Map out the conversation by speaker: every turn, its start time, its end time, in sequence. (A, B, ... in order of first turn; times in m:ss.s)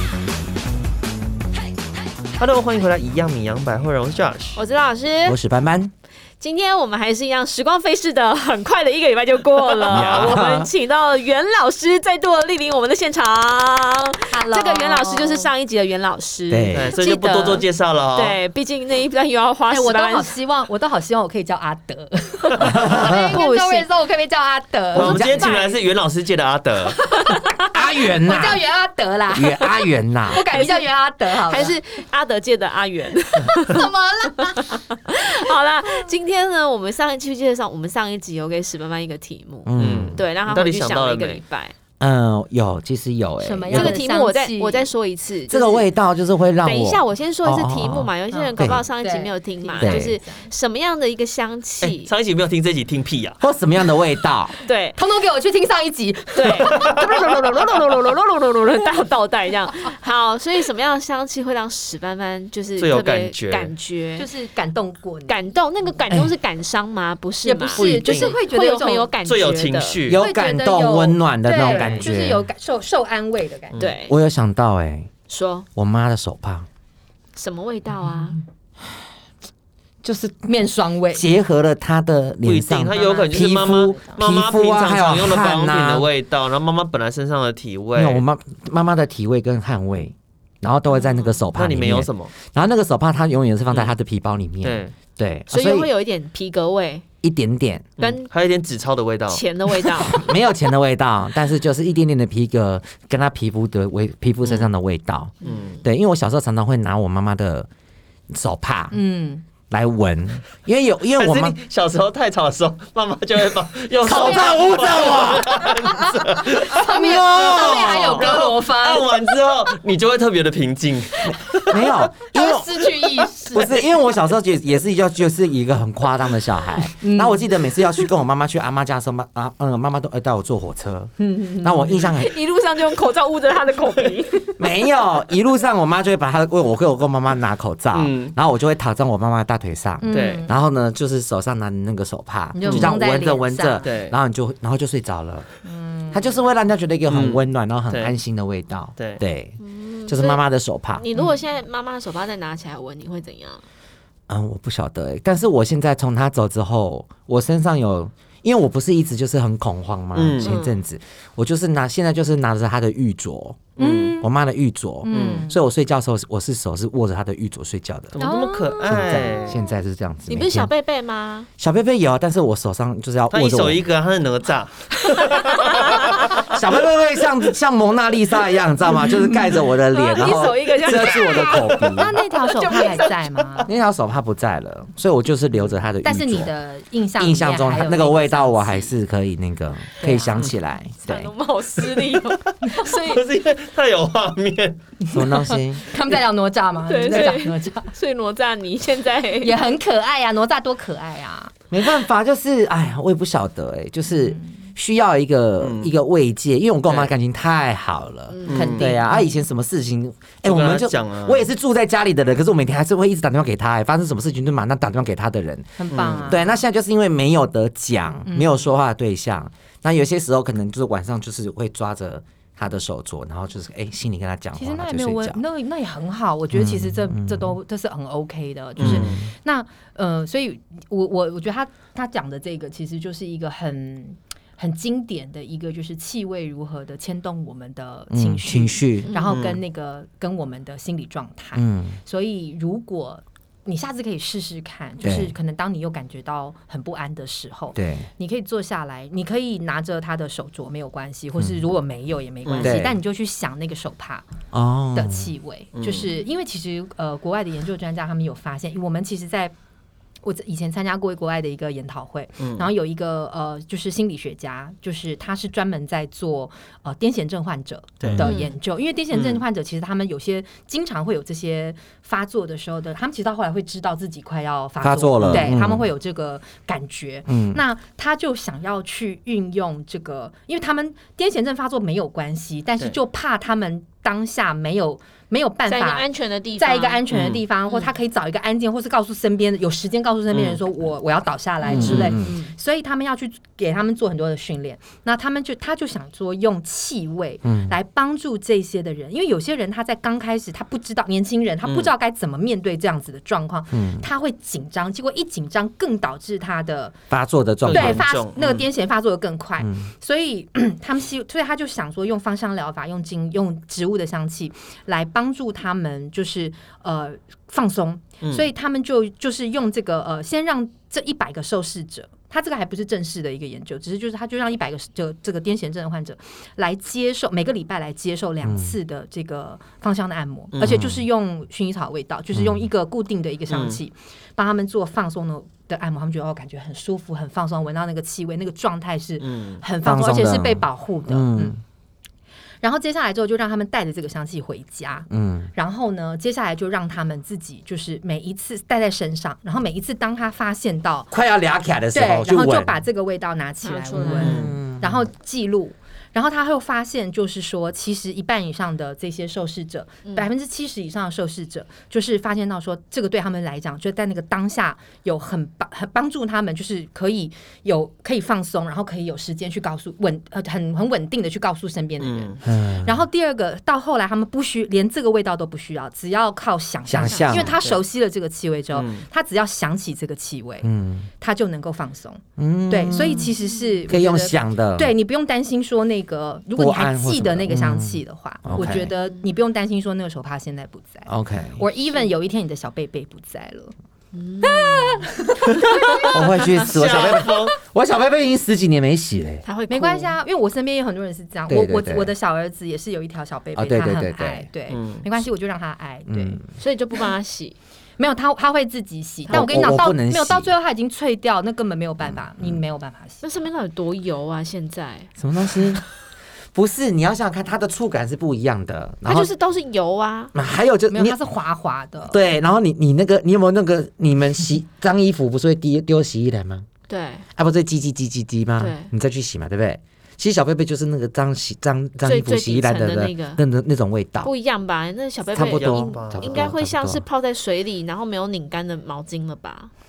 0:02.4-0:04.6 A
0:04.6-0:05.4 B
0:05.2-0:05.9 C
0:06.4-0:20.3 B
0:09.8-0:10.4 A
0:09.9-0:10.7 C
0:14.3-0:15.5 D
0:16.5-0:16.9 C
0:16.7-0:18.4 A
0:19.7-0:25.8 D
0:22.7-0:23.4 C
0:22.8-0:23.9 B
0:24.9-0:27.0 A
0:24.9-0:25.5 C
0:27.2-0:31.8 D
0:27.6-0:28.6 C
0:29.3-0:30.4 C
0:30.3-0:41.7 B
0:33.5-0:34.8 D
0:39.6-0:40.2 C
0:39.8-0:41.4 A
0:42.0-0:44.0 C
0:43.4-0:44.9 D
0:43.7-0:45.9 B
0:45.5-0:48.8 C
0:46.6-0:52.1 B
0:48.3-0:50.5 D
0:49.8-0:50.1 C
0:51.8-0:53.4 A
0:53.4-0:54.5 C
0:54.6-0:55.0 B
0:55.0-0:57.8 D
0:56.3-1:04.3 B
1:02.8-1:03.7 A
1:04.2-1:05.4 D
1:05.3-1:10.0 B
1:07.4-1:09.1 D
1:07.7-1:08.3 A
1:09.2-1:10.2 A
1:10.0-1:12.4 C
1:10.1-1:13.8 D
1:11.7-1:12.0 A
1:13.8-1:14.1 B
1:14.0-1:15.1 C
1:15.3-1:15.6 B
1:15.8-1:16.7 C
1:17.3-1:18.4 B
1:20.0-1:20.4 C
1:20.4-1:21.2 D
1:21.1-1:26.0 C
1:22.4-1:28.2 A
1:22.9-1:24.2 D
1:28.0-1:35.9 C
1:31.5-1:32.3 A
1:34.6-1:34.9 A
1:35.5-1:37.0 B
1:37.2-1:37.9 C
1:38.0-1:38.3 B
1:38.0-1:39.4 A
1:39.3-1:40.3 B
1:40.0-1:47.7 C
1:44.4-1:44.7 A
1:45.4-1:45.8 A
1:48.3-1:49.0 C
1:48.9-1:49.4 D
1:49.7-1:51.6 C
1:51.2-2:01.9 A
1:54.0-1:56.0 C
1:54.0-1:59.1 D
1:56.6-1:58.3 C
2:01.2-2:12.3 C
2:02.3-2:03.8 D
2:07.0-2:07.5 D
2:11.2-2:12.1 D
2:12.0-2:14.5 B
2:14.6-2:25.5 C
2:17.9-2:18.3 A
2:20.0-2:20.5 D
2:20.1-2:20.4 A
2:22.5-2:23.9 D
2:22.6-2:23.0 A
2:23.8-2:24.1 A
2:25.6-2:26.3 D
2:26.1-2:31.0 C
2:27.1-2:28.1 A
2:29.6-2:33.6 B
2:34.3-2:48.3 C
2:40.1-2:40.5 A
2:40.4-2:40.8 B
2:43.8-2:44.2 A
2:43.8-2:44.3 D
2:45.0-2:45.6 D
2:45.1-2:45.5 A
2:48.1-2:49.6 A
2:48.2-2:49.5 D
2:48.8-2:50.7 C
2:50.3-2:51.5 B
2:51.6-2:53.8 C
2:53.3-2:56.4 A
2:55.4-2:56.1 B
2:56.2-3:02.2 C
2:59.0-2:59.5 D
2:59.9-3:02.0 B
3:01.8-3:03.7 D
3:02.5-3:03.1 B
3:03.6-3:06.5 C
3:06.0-3:08.9 D
3:07.2-3:11.3 C
3:10.0-3:10.4 D
3:11.0-3:13.2 B
3:12.8-3:14.8 A
3:15.0-3:17.9 D
3:15.1-3:15.9 C
3:16.8-3:19.6 B
3:19.4-3:21.5 D
3:21.7-3:45.4 C
3:24.2-3:24.4 D
3:25.6-3:25.9 A
3:26.9-3:27.1 A
3:28.3-3:28.6 B
3:28.4-3:29.0 A
3:28.5-3:29.4 D
3:30.4-3:31.5 A
3:35.8-3:36.5 D
3:35.9-3:36.4 A
3:38.2-3:38.7 D
3:44.6-4:14.2 D
3:46.5-3:47.6 C
3:48.8-3:49.2 A
3:48.8-3:49.3 C
3:58.1-3:59.1 C
3:59.3-3:59.6 A
4:01.5-4:02.0 C
4:05.0-4:05.3 C
4:07.8-4:08.1 C
4:11.4-4:11.6 C
4:12.4-4:12.8 A
4:12.6-4:13.0 C
4:14.5-4:15.3 C
4:14.9-4:19.5 D
4:15.8-4:16.1 A
4:20.2-5:07.0 D
4:22.4-4:22.7 A
4:28.0-4:28.3 A
4:28.0-4:28.3 C
4:28.2-4:28.5 B
4:29.1-4:29.4 A
4:34.8-4:35.9 C
4:35.2-4:35.5 A
4:37.3-4:37.6 C
4:45.6-4:47.0 B
4:47.1-4:47.4 A
4:50.3-4:50.6 A
4:51.6-4:52.5 B
4:51.7-4:52.3 C
4:51.7-4:52.2 A
4:57.4-4:57.7 C
5:01.6-5:01.9 A
5:03.7-5:04.1 C
5:07.1-5:08.0 C
5:07.6-5:08.6 A
5:07.7-5:41.5 D
5:09.6-5:09.9 C
5:18.2-5:18.5 A
5:28.4-5:28.8 C
5:30.5-5:30.8 A
5:30.6-5:31.0 C
5:32.3-5:32.7 C
5:33.5-5:33.8 A
5:39.2-5:39.6 A
5:39.8-5:41.6 C
5:42.6-5:51.1 D
5:45.1-5:45.5 C
5:51.1-5:52.8 C
5:51.9-6:20.7 D
5:53.6-5:54.4 B
5:54.0-5:55.1 C
5:54.2-5:54.6 A
6:12.0-6:12.4 A
6:12.4-6:13.0 C
6:16.8-6:17.5 C
6:17.0-6:17.6 B
6:17.3-6:17.8 A
6:18.7-6:19.0 A
6:20.6-6:21.1 C
6:21.2-6:33.7 D
6:22.4-6:23.3 C
6:23.9-6:24.9 C
6:26.5-6:28.9 C
6:31.0-6:31.6 C
6:34.1-6:35.1 B
6:34.4-6:36.5 D
6:35.7-6:37.5 A
6:36.1-6:39.4 C
6:39.4-6:40.2 B
6:39.7-6:46.4 D
6:41.5-6:42.1 C
6:43.6-6:44.5 C
6:44.7-6:45.0 A
6:46.1-6:46.4 C
6:46.6-6:47.6 B
6:48.0-6:53.2 D
6:49.3-6:50.5 C
6:52.0-6:52.6 C
6:53.2-6:55.1 B
6:55.2-6:55.8 C
6:56.5-6:59.3 C
6:59.0-7:00.3 B
7:00.3-7:01.2 C
7:00.9-7:02.2 D
7:02.1-7:06.6 C
7:06.9-7:07.3 B
7:07.4-7:14.3 C
7:08.6-7:08.9 B
7:12.0-7:13.4 B
7:14.2-7:19.7 B
7:15.3-7:17.0 C
7:15.4-7:16.5 A